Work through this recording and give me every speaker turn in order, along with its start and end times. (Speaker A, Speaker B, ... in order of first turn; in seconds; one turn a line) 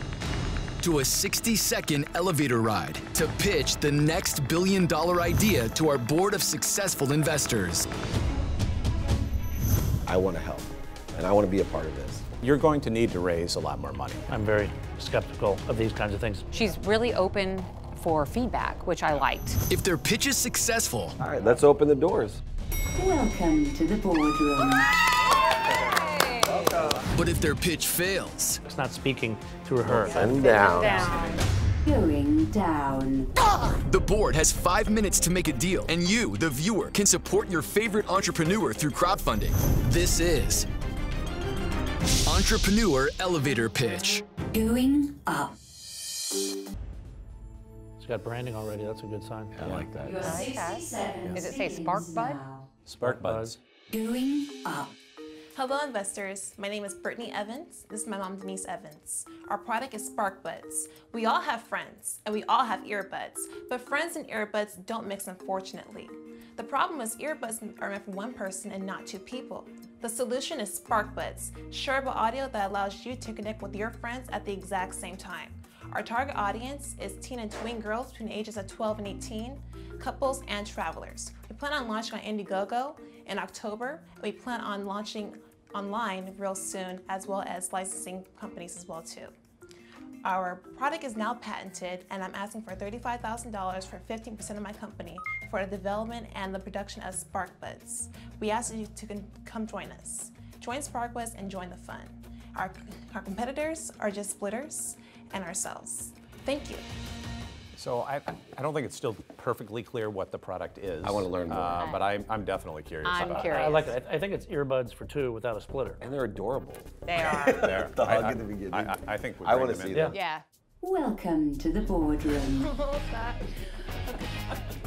Speaker A: 0.8-7.9
Speaker B: 10.1-12.2
Speaker C: 12.4-14.3
Speaker D: 14.3-16.5
Speaker E: 16.5-19.6
Speaker A: 19.7-21.2
Speaker B: 21.2-22.4
Speaker F: 23.0-24.9
Speaker E: 25.8-26.7
Speaker B: 26.5-27.0
Speaker A: 27.1-28.6
Speaker D: 28.6-30.4
Speaker B: 29.9-31.3
Speaker E: 30.1-31.4
Speaker F: 31.8-33.3
Speaker A: 33.8-40.7
Speaker A: 42.3-44.3
Speaker F: 44.4-45.6
Speaker D: 48.0-49.6
Speaker B: 49.5-50.4
Speaker F: 50.0-52.7
Speaker E: 50.2-52.5
Speaker C: 52.9-53.6
Speaker D: 53.0-53.6
Speaker F: 53.9-54.9
Speaker G: 55.6-89.3
Speaker G: 90.2-106.8
Speaker C: 107.8-113.7
Speaker B: 111.0-111.9
Speaker E: 111.8-112.1
Speaker E: 113.0-114.0
Speaker D: 113.3-116.0
Speaker B: 116.0-120.2
Speaker E: 117.1-117.8
Speaker C: 117.4-120.2
Speaker E: 120.1-120.4
Speaker F: 120.8-122.8
Speaker G: 122.5-123.5
Speaker G: 124.1-124.3